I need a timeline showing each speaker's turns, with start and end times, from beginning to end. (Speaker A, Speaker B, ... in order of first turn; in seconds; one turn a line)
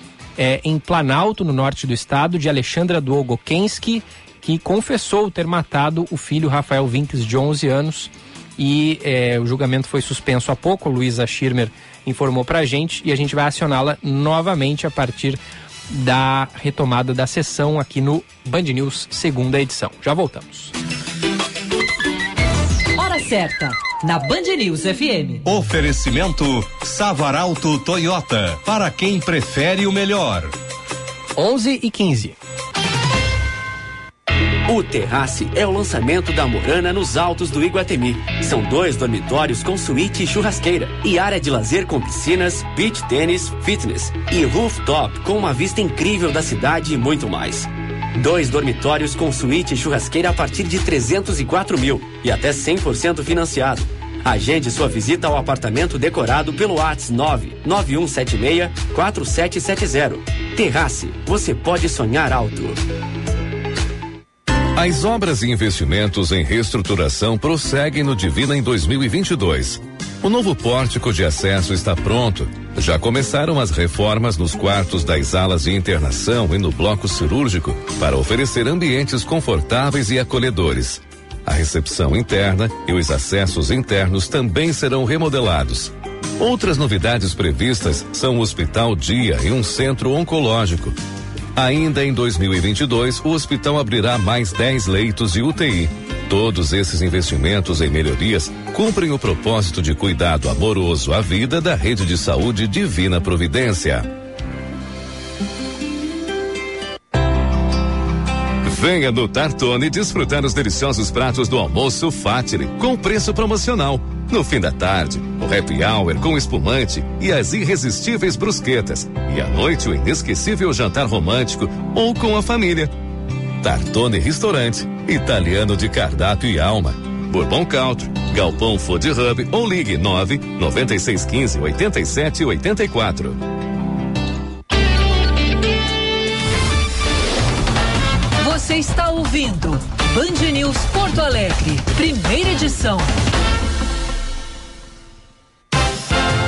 Speaker A: 0.4-20.7
Speaker B: 23.0-25.4
Speaker C: 25.4-30.5
Speaker A: 31.4-32.4
Speaker D: 34.7-62.8
Speaker E: 64.8-91.0
Speaker E: 91.5-104.1
Speaker E: 108.6-122.9
Speaker E: 123.6-133.4
Speaker B: 138.4-143.1